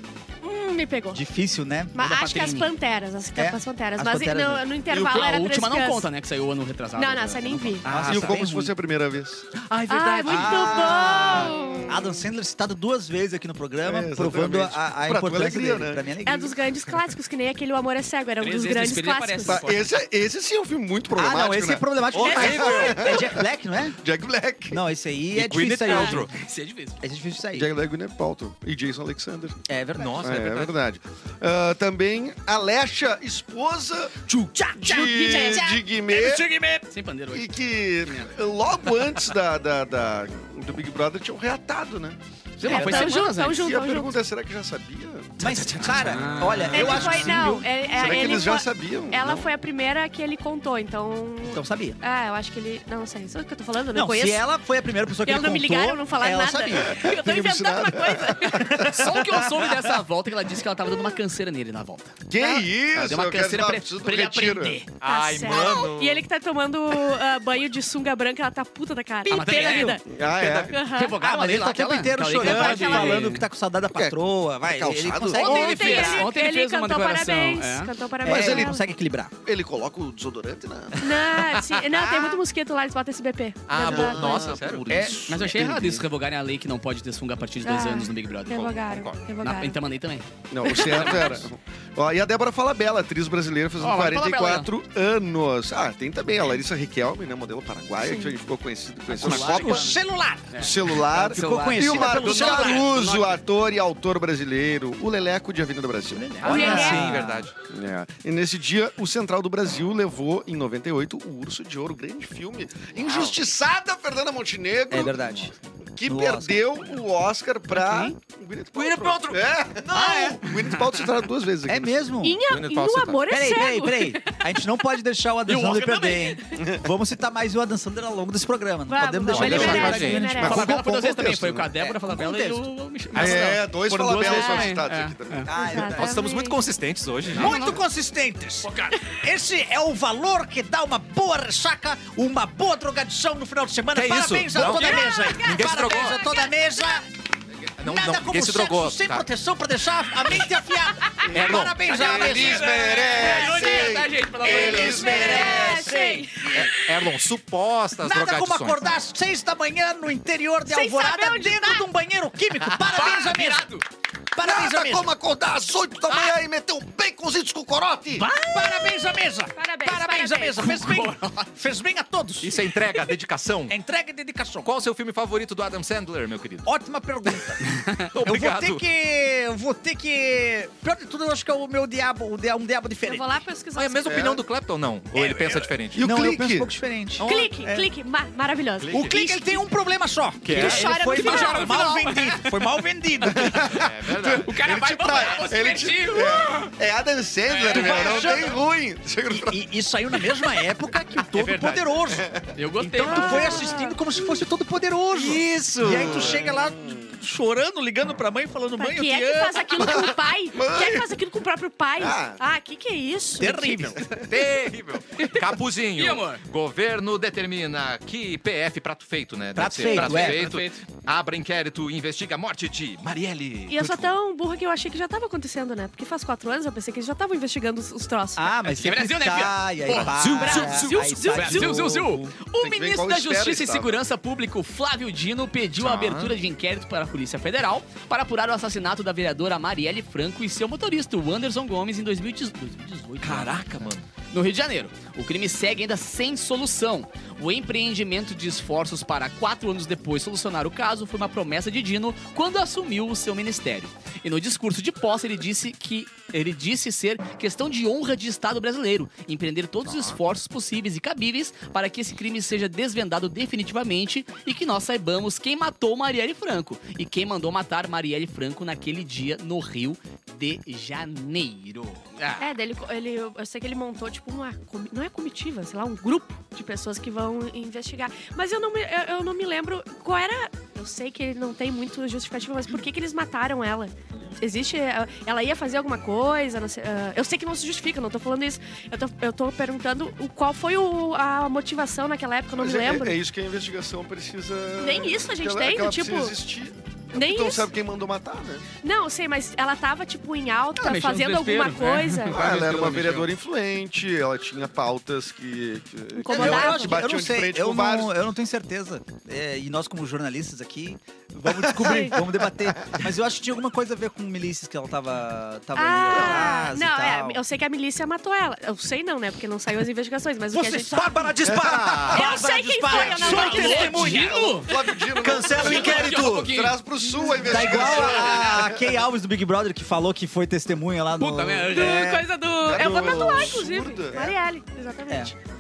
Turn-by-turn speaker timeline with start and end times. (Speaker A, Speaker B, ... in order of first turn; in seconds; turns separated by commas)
Speaker A: 0.4-1.2, Speaker B: 1.1-1.9, Speaker A: 1.9-6.1, Speaker C: 2.0-2.7, Speaker B: 3.4-4.7, Speaker C: 4.9-7.9, Speaker A: 7.0-7.9, Speaker B: 7.8-8.7, Speaker D: 7.9-8.4, Speaker E: 8.1-9.4, Speaker D: 9.5-11.0, Speaker A: 9.9-12.0, Speaker B: 10.2-16.6, Speaker E: 11.1-12.2, Speaker E: 13.8-16.1, Speaker A: 16.2-19.6, Speaker C: 18.4-20.0, Speaker E: 19.5-23.4, Speaker B: 21.1-24.0, Speaker D: 22.1-23.2, Speaker A: 22.3-22.7, Speaker E: 24.0-24.8, Speaker B: 24.7-26.3, Speaker D: 25.3-26.3, Speaker C: 25.9-27.0, Speaker B: 27.0-27.7, Speaker E: 27.5-29.6, Speaker B: 29.7-30.6, Speaker D: 30.0-30.7, Speaker E: 30.2-34.2, Speaker B: 34.2-36.9, Speaker E: 34.8-36.5, Speaker A: 34.8-35.7, Speaker C: 36.9-37.5, Speaker E: 37.3-45.4, Speaker C: 38.0-38.3, Speaker C: 42.6-43.6, Speaker A: 42.6-44.2, Speaker B: 45.4-47.7, Speaker D: 45.6-46.2, Speaker C: 45.8-47.5, Speaker A: 46.7-54.4, Speaker E: 46.8-49.5, Speaker B: 51.4-52.0, Speaker B: 53.9-57.0, Speaker A: 55.2-58.9, Speaker E: 56.8-59.0, Speaker B: 58.7-59.8, Speaker C: 58.8-64.9, Speaker E: 62.3-64.8, Speaker D: 65.0-66.2, Speaker A: 65.0-70.0, Speaker B: 69.2-70.0, Speaker C: 69.3-73.5, Speaker E: 70.1-70.8, Speaker A: 70.7-71.2, Speaker B: 71.2-76.3, Speaker A: 72.4-73.3, Speaker E: 73.9-75.6, Speaker C: 75.3-77.9, Speaker A: 75.4-78.8, Speaker B: 78.2-79.3, Speaker E: 78.2-78.7, Speaker E: 79.4-81.1, Speaker A: 81.0-84.6, Speaker D: 81.3-82.4, Speaker D: 83.7-85.3, Speaker E: 83.7-86.0, Speaker B: 84.9-85.4, Speaker C: 85.3-88.8, Speaker A: 87.6-89.8, Speaker D: 88.9-89.2, Speaker C: 89.4-91.4, Speaker E: 90.5-99.9, Speaker C: 93.8-94.7, Speaker A: 98.0-98.3, Speaker C: 99.1-103.4, Speaker B: 99.2-102.9, Speaker E: 100.6-106.4, Speaker C: 106.1-106.8, Speaker A: 106.4-107.1, Speaker B: 106.4-107.5, Speaker D: 106.4-107.5, Speaker E: 107.7-115.2, Speaker D: 112.9-113.4, Speaker B: 114.9-116.6, Speaker E: 116.0-122.1, Speaker C: 117.7-118.2, Speaker D: 118.7-120.4, Speaker B: 119.9-120.4, Speaker C: 120.5-121.0, Speaker B: 121.7-122.4, Speaker A: 122.2-124.4, Speaker D: 122.4-123.2, Speaker B: 123.3-130.8, Speaker C: 125.5-126.4, Speaker E: 126.5-126.9, Speaker A: 128.9-130.6, Speaker D: 129.3-130.3, Speaker E: 129.5-131.7, Speaker C: 130.4-135.5, Speaker B: 131.8-132.7, Speaker E: 133.1-135.9, Speaker A: 134.2-134.8, Speaker B: 135.5-136.2, Speaker A: 135.6-136.6, Speaker D: 135.9-137.6, Speaker B: 137.3-147.0, Speaker E: 137.3-137.7, Speaker C: 137.4-137.8, Speaker C: 138.6-139.0, Speaker D: 143.9-146.2, Speaker A: 144.6-145.5, Speaker D: 147.8-149.3, Speaker B: 147.8-153.8, Speaker D: 151.3-151.9, Speaker E: 151.8-155.7, Speaker C: 151.9-155.4, Speaker B: 154.4-156.7, Speaker A: 154.5-156.7, Speaker D: 156.5-158.9, Speaker B: 158.0-163.7, Speaker A: 160.7-161.8, Speaker C: 162.8-163.8, Speaker B: 164.3-165.1, Speaker E: 164.4-168.3, Speaker D: 166.1-166.3, Speaker B: 168.1-172.6, Speaker A: 168.4-168.9, Speaker A: 169.6-170.7, Speaker C: 170.6-171.5, Speaker D: 172.4-173.8, Speaker B: 173.7-174.7, Speaker D: 174.6-176.7, Speaker B: 176.6-177.6, Speaker D: 178.1-178.8, Speaker B: 178.2-183.3, Speaker A: 183.0-184.3, Speaker D: 183.7-186.1, Speaker E: 184.1-184.4, Speaker B: 185.1-187.9, Speaker E: 185.9-186.7, Speaker A: 187.2-189.6, Speaker D: 187.2-187.5, Speaker D: 188.8-189.2, Speaker B: 188.9-193.8, Speaker D: 190.4-190.9, Speaker A: 190.5-192.1, Speaker C: 190.9-192.6, Speaker E: 193.2-199.6, Speaker D: 193.7-194.4, Speaker C: 194.4-196.7, Speaker C: 197.5-198.3, Speaker B: 197.7-198.6, Speaker B: 199.3-202.3, Speaker D: 201.3-201.8, Speaker E: 202.1-202.5, Speaker C: 202.5-203.7, Speaker B: 202.8-210.1, Speaker A: 203.0-203.9, Speaker D: 205.1-206.4, Speaker E: 205.8-207.1, Speaker A: 208.8-214.0, Speaker E: 209.8-211.2, Speaker E: 212.0-212.4, Speaker B: 213.4-214.0, Speaker D: 214.2-224.1, Speaker C: 215.9-216.4, Speaker B: 219.5-220.4, Speaker C: 219.9-220.8, Speaker A: 223.7-228.5, Speaker B: 228.3-232.3, Speaker C: 228.7-243.7, Speaker D: 230.1-230.9, Speaker A: 230.4-231.8, Speaker E: 232.6-234.0, Speaker D: 235.8-236.3, Speaker D: 243.2-244.0, Speaker C: 244.3-272.5, Speaker D: 259.8-260.2, Speaker A: 272.4-293.2, Speaker E: 292.5-298.7, Speaker A: 294.8-296.4, Speaker A: 297.1-297.7, Speaker A: 298.8-302.4, Speaker C: 300.8-303.3, Speaker E: 302.3-308.1, Speaker A: 306.2-307.0, Speaker B: 306.2-317.4, Speaker E: 311.7-312.0, Speaker A: 311.8-312.2, Speaker A: 315.7-321.1, Speaker E: 316.1-316.4, Speaker B: 320.5-324.4, Speaker D: 321.1-322.3, Speaker A: 322.1-324.1, Speaker E: 322.9-328.9, Speaker C: 323.2-324.8, Speaker D: 325.1-326.6, Speaker C: 325.4-326.8, Speaker B: 327.4-332.3, Speaker C: 331.2-332.2, Speaker A: 331.7-335.4, Speaker E: 332.6-334.3